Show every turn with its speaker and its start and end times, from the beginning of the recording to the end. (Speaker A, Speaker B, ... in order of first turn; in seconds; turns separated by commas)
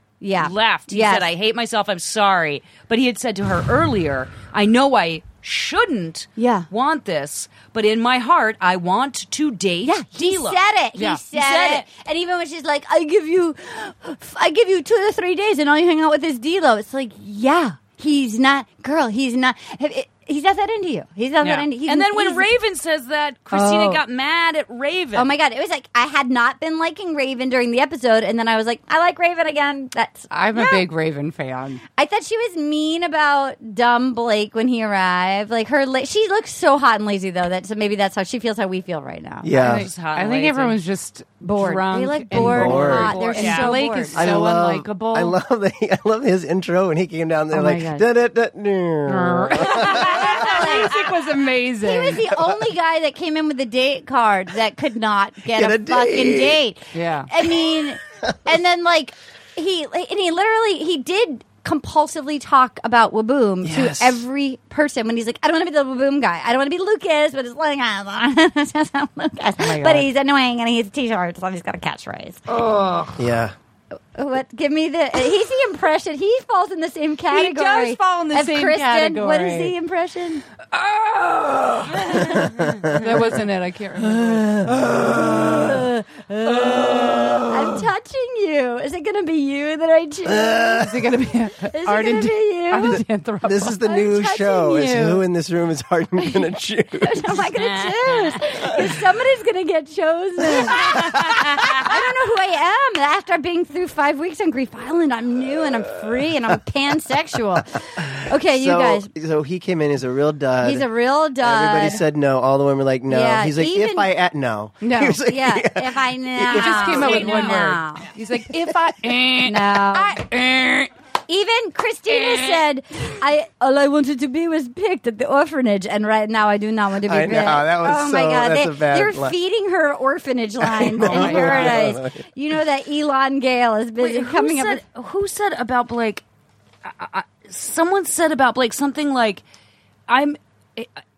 Speaker A: 0.2-1.3, Speaker B: 0.4-10.6, Speaker A: 6.4-6.7, Speaker A: 9.8-22.5, Speaker C: 10.9-11.2, Speaker B: 11.3-11.9, Speaker B: 21.4-25.3, Speaker A: 23.5-24.0, Speaker A: 25.1-30.9, Speaker C: 30.3-31.8, Speaker A: 31.9-39.5, Speaker D: 39.4-39.9, Speaker C: 39.5-45.3, Speaker B: 39.6-40.8, Speaker A: 41.4-44.2, Speaker D: 42.3-43.2, Speaker B: 42.9-43.7, Speaker D: 44.1-50.3, Speaker A: 47.5-48.0, Speaker C: 49.1-52.2, Speaker A: 49.9-51.0, Speaker A: 51.8-72.4, Speaker D: 55.5-56.6, Speaker C: 56.9-57.3, Speaker D: 63.6-64.2, Speaker C: 69.6-70.1, Speaker C: 72.6-73.1, Speaker D: 73.1-73.5, Speaker A: 74.1-80.4, Speaker C: 77.3-79.8, Speaker C: 80.8-81.3, Speaker B: 82.0-82.7, Speaker D: 82.3-83.3, Speaker C: 82.9-85.3, Speaker D: 84.0-85.9, Speaker A: 85.4-90.7, Speaker D: 86.6-87.8, Speaker D: 90.2-90.9, Speaker C: 90.6-93.8, Speaker A: 91.7-93.0, Speaker D: 93.4-97.4, Speaker A: 93.8-94.7, Speaker C: 94.6-95.2, Speaker A: 97.0-109.1, Speaker B: 97.5-98.4, Speaker B: 101.3-101.7, Speaker D: 108.0-110.9, Speaker A: 110.6-112.0, Speaker D: 111.4-117.2, Speaker A: 113.1-114.1, Speaker C: 114.8-115.2, Speaker A: 115.1-118.1, Speaker C: 116.5-120.9, Speaker B: 116.9-117.6, Speaker A: 119.4-120.2, Speaker A: 121.3-134.8, Speaker C: 122.1-122.6, Speaker D: 127.0-129.4, Speaker D: 130.6-132.2, Speaker B: 131.0-131.7, Speaker B: 134.0-136.2, Speaker B: 136.8-139.4, Speaker B: 140.1-140.9